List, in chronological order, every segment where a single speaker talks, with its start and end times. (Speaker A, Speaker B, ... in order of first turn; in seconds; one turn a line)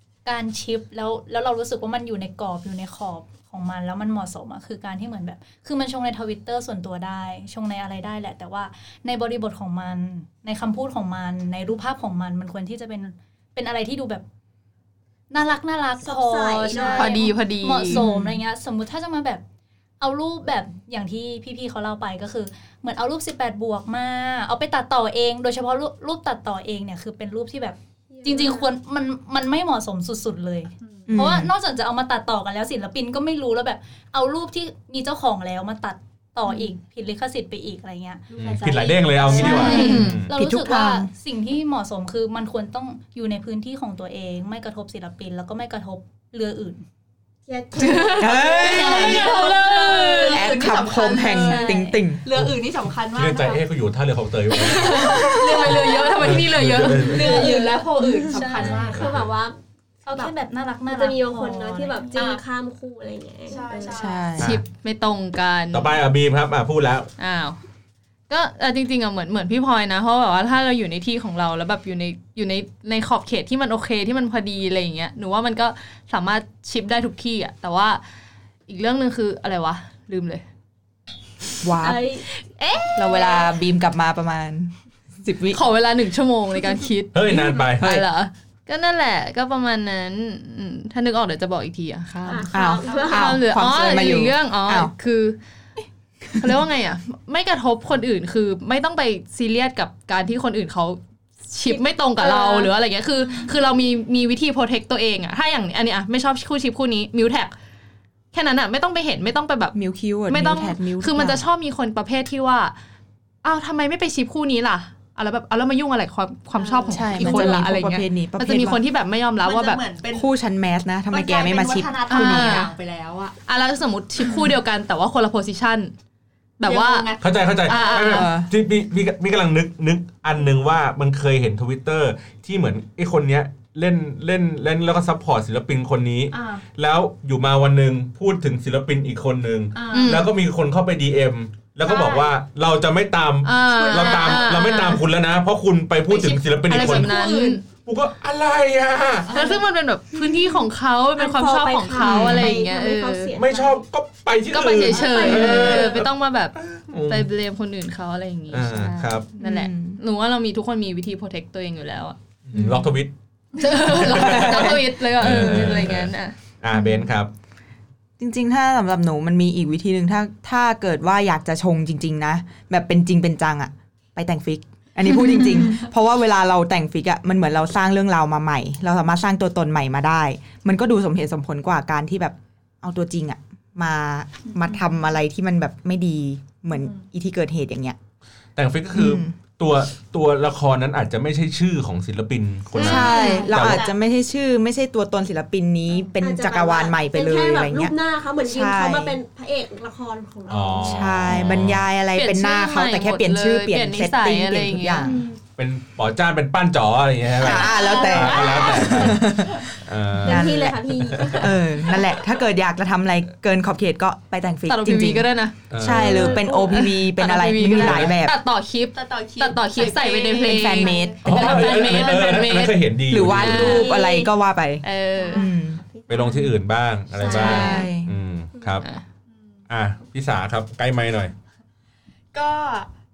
Speaker A: 0.2-14.2
Speaker A: 15.3-19.4
Speaker B: 16.0-17.2
Speaker C: 16.9-18.1
Speaker D: 17.9-18.4
Speaker A: 20.0-38.2
Speaker B: 28.1-28.7
Speaker E: 30.8-31.2
Speaker D: 31.1-31.5
Speaker E: 38.3-40.0
Speaker F: 38.4-40.3
Speaker D: 39.3-41.1
Speaker A: 39.3-46.8
Speaker C: 39.4-40.2
Speaker B: 47.5-49.7
Speaker C: 47.8-50.5
Speaker D: 48.2-49.3
Speaker E: 48.6-53.6
Speaker D: 50.3-52.2
Speaker A: 51.3-52.0
Speaker B: 51.5-51.8
Speaker F: 53.1-55.2
Speaker C: 54.5-58.1
Speaker E: 54.7-56.4
Speaker D: 55.1-55.6
Speaker F: 56.1-57.5
Speaker E: 57.0-59.1
Speaker B: 57.1-59.6
Speaker F: 58.6-59.2
Speaker A: 60.0-62.3
Speaker B: 60.9-64.0
Speaker E: 63.5-64.3
Speaker D: 63.9-64.6
Speaker C: 64.4-66.0
Speaker F: 65.7-67.1
Speaker C: 67.2-67.6
Speaker C: 68.3-78.0
Speaker C: 78.7-80.4
Speaker D: 81.6-82.0
Speaker B: 81.8-82.3
Speaker C: 82.4-83.5
Speaker D: 83.0-84.7
Speaker D: 85.2-85.6
Speaker C: 85.5-95.4
Speaker F: 87.1-87.9
Speaker D: 87.8-88.0
Speaker E: 92.2-93.3
Speaker B: 92.3-93.4
Speaker D: 92.5-94.9
Speaker D: 96.3-96.6
Speaker C: 96.4-107.5
Speaker B: 101.7-102.7
Speaker C: 108.3-109.8
Speaker D: 109.8-111.5
Speaker C: 110.3-112.7
Speaker C: 113.4-119.8
Speaker E: 116.6-117.6
Speaker D: 116.9-118.8
Speaker E: 119.4-120.3
Speaker D: 120.1-122.7
Speaker E: 121.1-123.3
Speaker C: 122.1-122.7
Speaker C: 123.5-125.9
Speaker C: 126.6-127.1
Speaker E: 126.7-128.2
Speaker F: 127.2-147.2
Speaker C: 127.7-128.3
Speaker D: 128.1-128.5
Speaker E: 136.3-136.7
Speaker E: 139.7-140.3
Speaker C: 139.9-140.3
Speaker E: 141.8-142.3
Speaker C: 143.4-145.1
Speaker E: 143.9-144.5
Speaker E: 146.1-147.6
Speaker C: 146.7-147.6
Speaker F: 147.7-149.3
Speaker E: 149.3-149.7
Speaker C: 149.3-153.3
Speaker B: 151.2-153.8
Speaker D: 152.0-152.6
Speaker F: 153.3-157.3
Speaker C: 154.5-156.6
Speaker B: 154.9-156.0
Speaker E: 155.0-155.8
Speaker C: 157.1-162.2
Speaker F: 158.5-159.3
Speaker D: 159.4-160.0
Speaker F: 162.5-163.1
Speaker D: 162.5-162.9
Speaker C: 163.6-166.3
Speaker F: 164.0-167.3
Speaker D: 164.1-165.9
Speaker D: 166.7-167.1
Speaker D: 168.2-188.0
Speaker E: 186.7-187.1
Speaker F: 188.6-193.8
Speaker D: 188.9-189.3
Speaker B: 192.7-193.5
Speaker E: 192.8-194.0
Speaker D: 192.8-199.2
Speaker E: 195.9-196.2
Speaker B: 196.2-201.3
Speaker F: 200.5-201.9
Speaker D: 200.8-205.2
Speaker C: 202.1-205.1
Speaker B: 205.0-205.4
Speaker F: 205.6-209.3
Speaker D: 207.3-210.8
Speaker E: 207.5-209.6
Speaker B: 207.8-208.7
Speaker F: 209.8-210.5
Speaker B: 210.2-212.0
Speaker D: 211.3-218.4
Speaker C: 214.7-215.6
Speaker F: 215.7-216.4
Speaker B: 215.8-216.9
Speaker C: 216.6-223.9
Speaker F: 217.7-218.2
Speaker E: 218.9-222.2
Speaker D: 220.4-221.9
Speaker F: 221.2-223.8
Speaker D: 223.1-225.8
Speaker B: 223.6-224.3
Speaker C: 224.8-225.4
Speaker B: 225.2-226.5
Speaker F: 226.1-228.9
Speaker C: 227.2-227.9
Speaker D: 227.2-228.1
Speaker B: 227.2-227.6
Speaker B: 228.5-228.8
Speaker E: 229.3-229.7
Speaker F: 229.7-231.3
Speaker E: 232.3-232.9